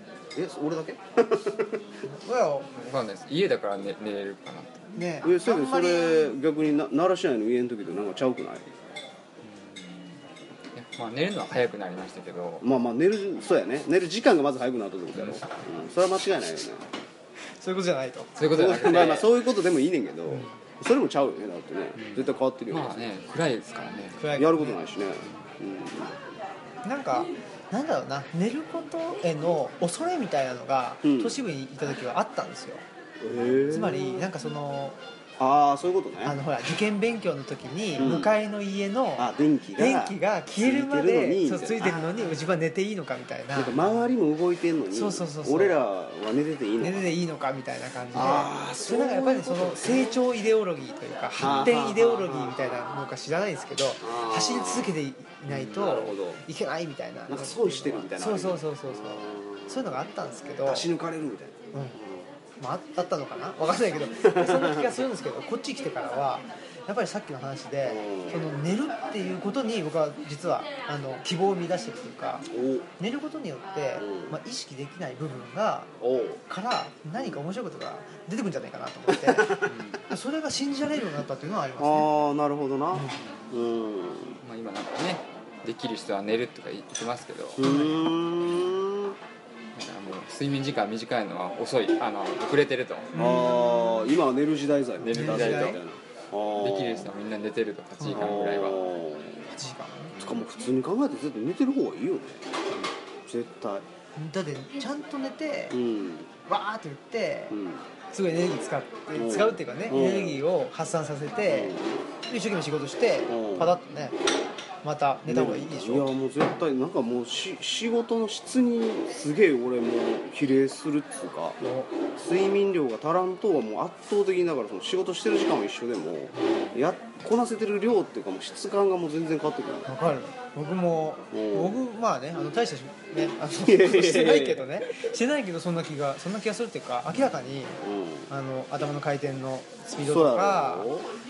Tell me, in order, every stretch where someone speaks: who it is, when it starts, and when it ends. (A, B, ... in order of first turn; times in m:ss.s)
0:00.3-0:01.9 A
0:02.0-0:02.7 B
0:02.8-0:04.9 C
0:05.0-0:06.3 B
0:05.2-0:08.7 A
0:09.4-0:10.2 C
0:10.7-0:12.6 C
0:12.6-0:16.9 A
0:15.1-0:15.4 C
0:17.6-0:18.3 B
0:18.4-0:19.3 C
0:18.5-0:23.1 A
0:22.0-0:24.2 C
0:24.2-0:24.8 B
0:24.3-0:26.2 A
0:26.8-0:32.8 B
0:31.0-0:31.4 A
0:33.2-0:34.3 A
0:33.6-0:35.0 B
0:35.4-0:36.4 A
0:36.2-0:43.8 B
0:38.0-0:38.4 A
0:39.2-0:42.4 A
0:43.6-0:47.0 A
0:44.9-0:45.8 B
0:46.8-1:00.9 B
0:48.1-0:50.2 A
0:51.4-0:52.8 A
0:54.0-0:55.0 A
0:55.6-0:56.4 A
0:57.3-0:59.9 A
1:00.6-1:02.3 A
1:02.6-1:15.9 B
1:04.2-1:04.9 A
1:07.8-1:08.5 A
1:12.5-1:12.9 A
1:14.0-1:14.4 A
1:16.0-1:16.4 A
1:16.5-1:22.1 B
1:19.1-1:19.7 A
1:19.6-1:20.0 C
1:21.8-1:24.4 A
1:22.9-1:23.2 B
1:24.4-1:27.7 C
1:27.6-1:29.2 A
1:27.6-1:28.0 B
1:29.7-1:33.1 C
1:33.1-1:34.0 B
1:33.1-1:37.1 A
1:35.0-1:35.8 C
1:35.0-1:35.8 B
1:36.6-1:38.8 C
1:38.0-1:38.3 B
1:38.1-1:39.5 A
1:39.5-1:40.2 B
1:40.2-1:40.4 C
1:40.2-1:42.5 A
1:43.3-1:43.8 A
1:44.2-1:45.8 B
1:45.7-1:46.3 A
1:46.4-1:47.6 B
1:47.5-1:47.8 A
1:48.1-1:51.8 B
1:49.1-1:50.4 A
1:51.5-1:52.0 A
1:52.3-1:54.2 B
1:53.3-1:53.8 A
1:54.8-1:56.1 B
1:55.3-2:01.6 A
2:01.6-2:01.9 B
2:02.1-2:10.1 A
2:09.9-2:20.9 B
2:11.3-2:11.8 A
2:13.6-2:14.9 A
2:17.8-2:18.3 A
2:20.0-2:21.1 A